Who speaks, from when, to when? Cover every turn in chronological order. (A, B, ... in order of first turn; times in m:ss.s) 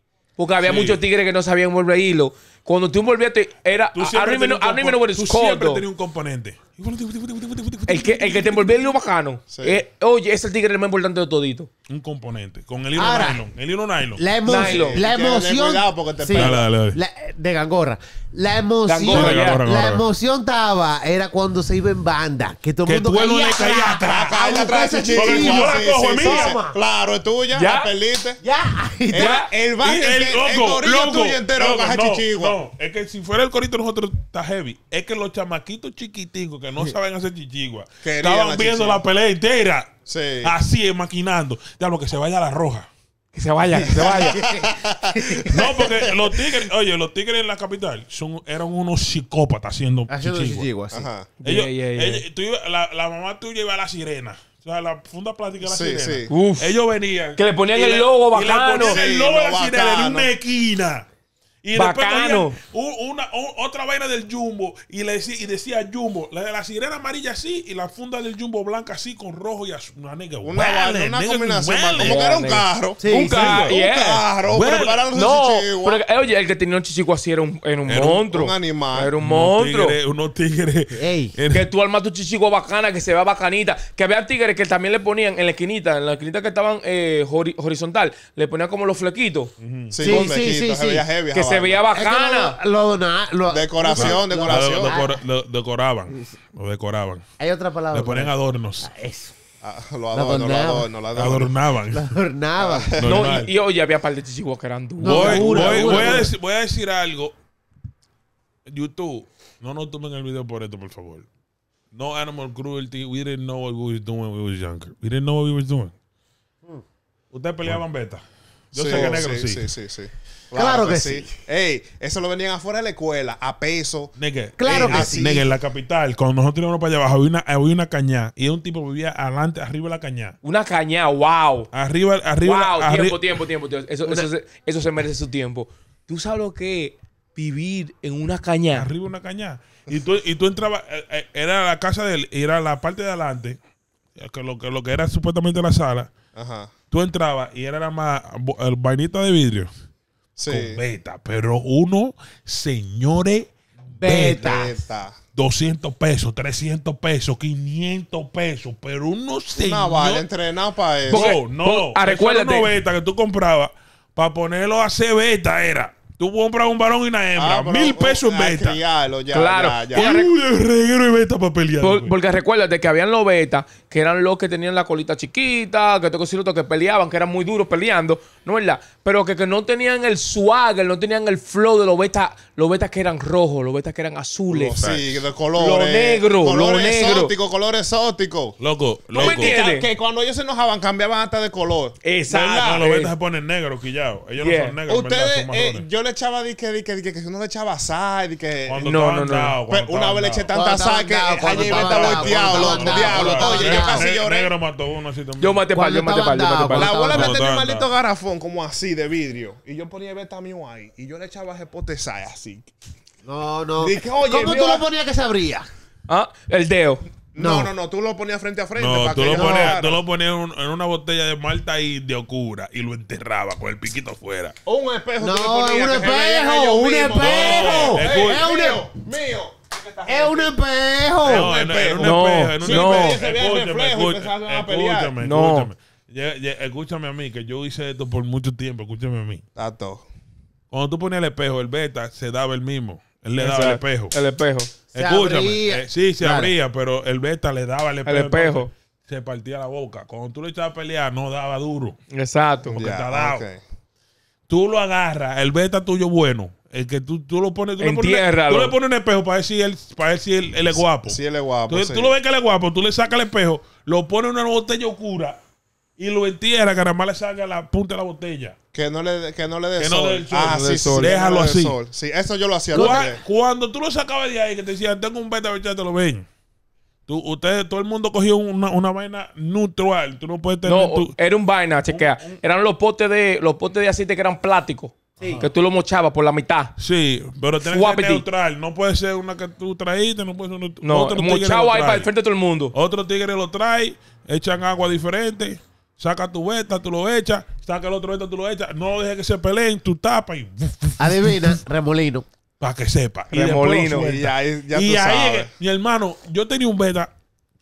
0:00.4-0:05.8 A
0:00.6-0:01.0 B
0:03.9-0:08.7 B
0:07.9-0:11.7 A
0:09.5-0:09.8 C
0:11.9-0:14.2 B
0:13.0-0:13.4 D
0:14.2-0:26.8 D
0:14.4-0:15.0 A
0:14.5-0:16.7 C
0:16.3-0:17.0 B
0:18.8-0:19.6 A
0:19.1-0:20.0 B
0:22.8-0:24.4 B
0:24.3-0:28.4 C
0:25.1-0:26.6 B
0:27.5-0:27.9 A
0:28.4-0:29.4 D
0:29.1-0:32.6 C
0:29.2-0:29.5 A
0:29.8-0:42.9 B
0:38.0-0:39.0 C
0:40.1-0:40.5 C
0:43.3-0:44.4 A
0:43.8-0:46.1 C
0:44.3-0:45.6 D
0:45.5-0:50.7 B
0:50.1-0:51.1 D
0:50.9-0:51.3 C
0:51.4-0:52.2 A
0:51.4-1:01.1 B
0:55.6-0:56.3 C
0:56.3-0:56.7 A
0:57.4-0:59.0 A
0:58.8-1:00.3 C
1:01.6-1:12.3 B
1:01.7-1:02.6 A
1:10.4-1:16.0 C
1:12.0-1:14.2 A
1:13.0-1:13.6 D
1:13.1-1:13.7 B
1:14.5-1:15.0 B
1:15.1-1:20.0 A
1:17.8-1:18.2 B
1:18.3-1:19.1 C
1:19.2-1:21.7 B
1:20.9-1:21.3 D
1:21.5-1:29.5 A
1:29.6-1:30.0 B
1:29.9-1:31.8 C
1:30.0-1:31.1 D
1:31.3-1:32.6 A
1:31.9-1:35.2 D
1:33.5-1:35.0 C
1:33.9-1:37.2 B
1:37.4-1:39.3 D
1:37.9-1:38.9 B
1:39.6-1:41.5 C
1:40.1-1:40.9 D
1:41.1-1:42.2 B
1:41.9-1:42.9 D
1:42.6-1:43.3 C
1:43.0-1:43.5 B
1:43.0-1:46.3 A
1:45.0-1:46.3 D
1:45.0-1:47.3 B
1:48.7-1:51.3 B
1:51.9-1:55.9 B
1:57.3-1:59.7 B
1:58.7-2:04.1 C
2:00.5-2:01.3 D
2:04.2-2:10.4 B
2:04.6-2:05.4 D
2:04.6-2:05.4 C
2:10.4-2:11.7 A
2:11.7-2:13.2 B
2:12.4-2:18.9 A
2:14.0-2:14.3 D
2:18.7-2:23.6 B
2:24.2-2:26.1 B
2:26.3-2:26.7 C
2:26.9-2:29.7 B
2:30.4-2:30.8 C
2:30.5-2:34.5 B
2:34.0-2:34.8 D
2:34.2-2:35.2 C
2:35.4-2:40.2 B
2:39.6-2:41.3 C
2:41.1-2:42.7 A
2:41.1-2:48.8 B
2:47.4-2:50.1 C
2:49.3-2:50.3 A
2:49.9-2:52.1 B
2:51.8-3:04.8 A
3:04.5-3:08.6 C
3:04.8-3:05.2 B
3:05.6-3:07.3 A
3:08.6-3:09.6 B
3:09.1-3:12.0 C
3:09.2-3:09.9 A
3:12.0-3:13.1 A
3:12.3-3:15.8 B
3:14.4-3:14.8 A
3:14.9-3:18.8 C
3:18.7-3:20.5 B
3:18.7-3:19.6 A
3:19.7-3:24.5 C
3:20.5-3:24.0 D
3:21.5-3:25.6 B
3:25.4-3:26.9 A
3:25.7-3:27.4 D
3:26.7-3:32.7 C
3:27.0-3:27.9 B
3:33.2-3:35.6 D
3:33.8-3:34.8 C
3:36.1-3:37.0 A
3:37.3-3:40.0 C
3:37.4-3:37.7 D
3:38.8-3:44.6 B
3:39.3-3:39.7 D
3:44.6-3:50.5 C
3:45.2-3:48.8 D
3:47.2-3:48.4 B
3:50.0-3:51.6 D
3:51.2-3:55.2 C
3:51.2-3:59.4 B
3:52.0-3:53.2 A
3:55.2-3:55.7 A
3:59.6-4:00.0 C
4:00.7-4:04.1 B
4:03.4-4:04.7 A
4:04.9-4:12.0 B
4:04.9-4:06.5 D
4:08.0-4:08.7 A
4:12.1-4:12.8 A
4:12.7-4:13.6 C
4:12.7-4:13.4 B
4:14.5-4:25.4 B
4:17.8-4:18.7 A
4:21.0-4:22.1 C
4:26.0-4:28.5 B
4:28.7-4:33.2 C
4:29.8-4:31.8 B
4:30.5-4:31.1 A
4:32.7-4:36.3 B
4:32.7-4:33.1 A
4:37.1-4:41.1 B
4:40.6-4:46.7 A
4:41.9-4:42.4 B
4:45.2-4:45.4 D
4:45.2-4:45.5 B
4:46.8-4:52.1 B
4:47.7-4:48.2 A
4:50.8-4:52.7 A
4:52.7-5:01.6 B
5:01.0-5:02.2 D
5:02.6-5:07.1 B
5:03.3-5:04.1 A
5:03.9-5:05.5 C